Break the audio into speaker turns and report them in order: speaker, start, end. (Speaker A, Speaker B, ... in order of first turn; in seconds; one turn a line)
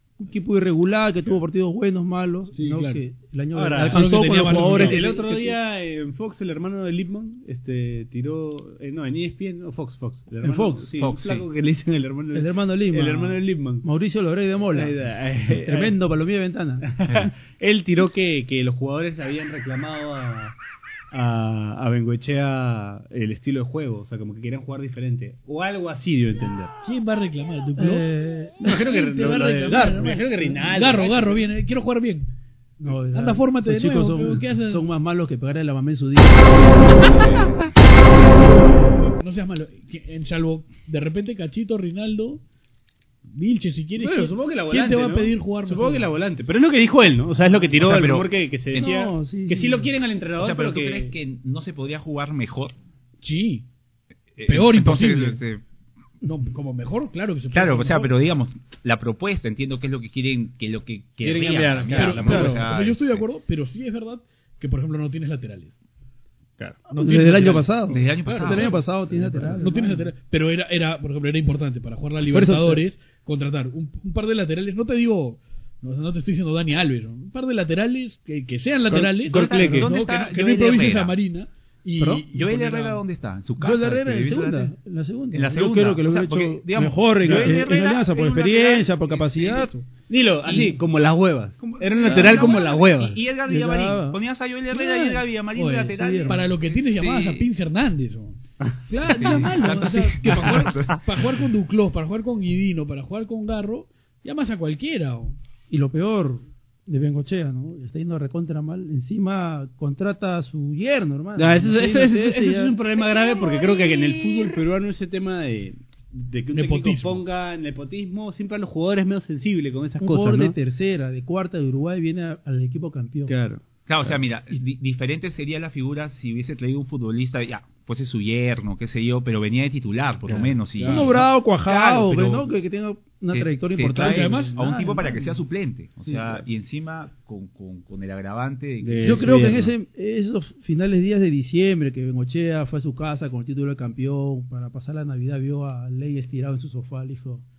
Speaker A: 0.2-5.6
Speaker B: 2.5-3.0
Speaker C: 3.5-13.8
Speaker B: 3.9-5.0
Speaker A: 10.4-10.9
Speaker D: 11.0-11.4
Speaker A: 12.3-16.9
Speaker C: 14.7-15.9
Speaker C: 16.9-20.6
Speaker C: 21.1-26.7
Speaker B: 26.8-28.1
Speaker A: 27.8-29.1
Speaker C: 28.6-31.5
Speaker B: 28.9-32.3
Speaker A: 29.7-30.6
Speaker A: 32.8-37.3
Speaker B: 33.1-34.9
Speaker D: 37.2-37.6
Speaker B: 39.2-42.4
Speaker B: 43.3-46.1
Speaker C: 44.0-51.1
Speaker D: 47.8-48.9
Speaker A: 48.7-49.9
Speaker D: 50.4-52.7
Speaker B: 53.2-53.7
Speaker D: 54.4-55.6
Speaker B: 54.4-55.4
Speaker B: 56.2-58.1
Speaker D: 57.5-63.2
Speaker C: 61.2-62.6
Speaker B: 61.9-65.8
Speaker A: 62.2-62.6
Speaker A: 66.9-70.1
Speaker B: 66.9-67.7
Speaker D: 67.9-68.8
Speaker B: 68.2-68.8
Speaker B: 69.5-83.0
Speaker A: 72.2-72.8
Speaker C: 78.9-79.9
Speaker D: 79.2-81.1
Speaker A: 82.0-82.3
Speaker D: 82.3-84.7
Speaker A: 83.6-89.7
Speaker D: 85.3-89.7
Speaker C: 90.1-93.2
Speaker D: 91.6-97.5
Speaker A: 92.1-92.4
Speaker B: 92.2-92.5
Speaker A: 93.5-94.2
Speaker A: 94.7-95.2
Speaker B: 95.5-105.3
Speaker A: 95.8-96.5
Speaker D: 99.0-101.0
Speaker C: 99.1-99.5
Speaker A: 105.7-112.8
Speaker C: 111.4-120.5
Speaker B: 116.5-117.2
Speaker A: 120.0-123.3
Speaker C: 123.3-124.2
Speaker D: 123.9-132.5
Speaker C: 130.3-130.9
Speaker B: 130.8-131.1
Speaker A: 130.8-135.4
Speaker D: 133.3-139.7
Speaker B: 133.9-134.6
Speaker A: 136.1-136.3
Speaker C: 138.8-139.7
Speaker A: 139.0-147.4